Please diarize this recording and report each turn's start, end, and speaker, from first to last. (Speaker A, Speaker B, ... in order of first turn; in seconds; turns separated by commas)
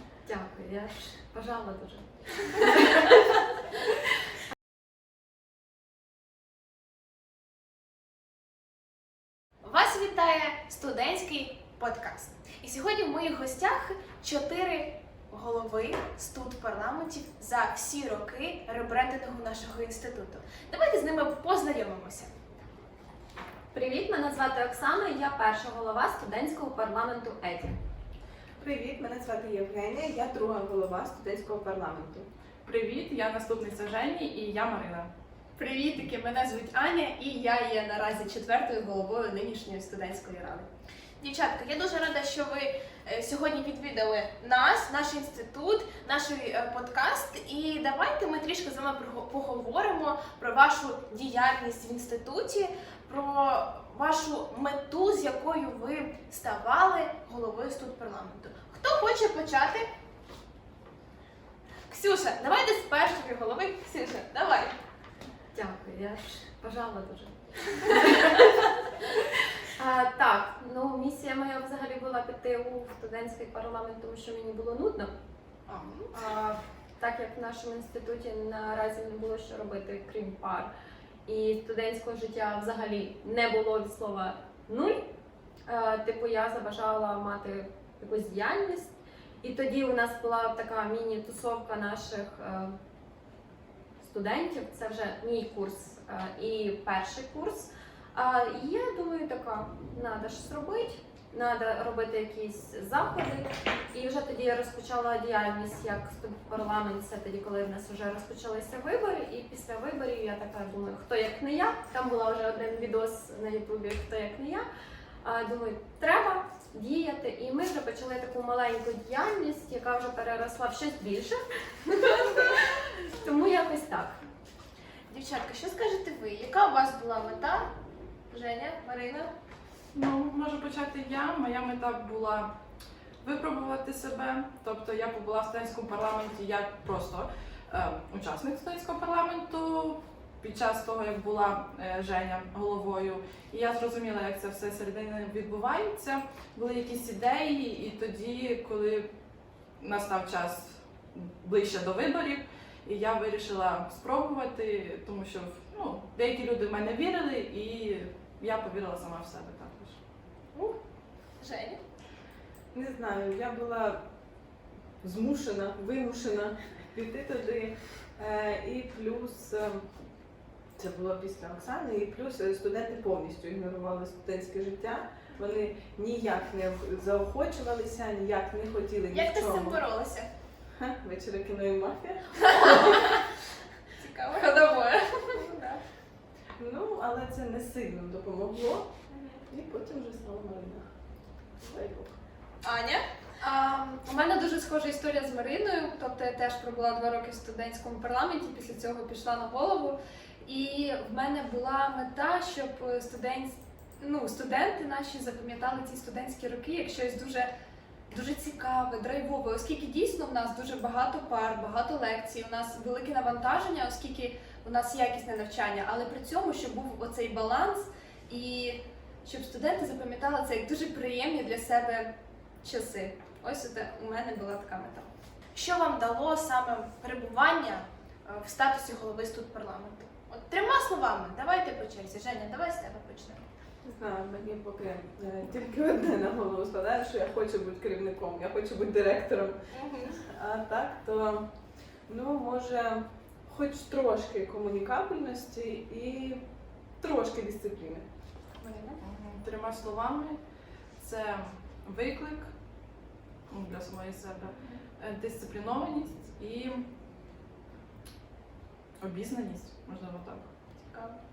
Speaker A: 0.2-3.2, Speaker B: 9.6-22.3, Speaker A: 23.7-27.8, Speaker C: 28.6-32.2, Speaker D: 32.6-35.1, Speaker E: 35.5-40.7, Speaker B: 41.2-59.9, Speaker B: 61.9-64.8, Speaker A: 65.5-68.5, Speaker A: 69.8-75.1, Speaker B: 75.7-76.1, Speaker A: 76.1-80.7, Speaker A: 81.3-85.1, Speaker A: 85.7-92.7, Speaker A: 94.0-114.6, Speaker A: 115.2-124.2, Speaker B: 125.1-127.7, Speaker B: 128.3-129.3, Speaker D: 129.9-132.5, Speaker D: 133.2-149.1, Speaker D: 149.8-160.0, Speaker B: 161.4-161.8, Speaker C: 162.7-164.0, Speaker C: 165.0-169.8, Speaker C: 170.8-179.8, Speaker B: 179.1-180.3, Speaker C: 180.8-183.2, Speaker B: 184.0-184.6, Speaker E: 184.3-185.5, Speaker B: 185.3-185.8, Speaker C: 186.6-188.9, Speaker B: 189.1-189.4, Speaker C: 189.5-190.8, Speaker C: 191.6-192.2, Speaker B: 192.6-193.0, Speaker E: 193.4-207.5, Speaker E: 208.1-222.1, Speaker E: 222.6-225.1, Speaker B: 225.5-233.4, Speaker C: 233.8-239.6, Speaker B: 239.7-240.2, Speaker C: 240.2-241.4, Speaker C: 242.1-246.4, Speaker C: 247.0-248.0, Speaker B: 248.6-249.0, Speaker D: 249.0-250.4, Speaker D: 251.0-252.5, Speaker D: 253.5-256.8, Speaker D: 259.0-260.5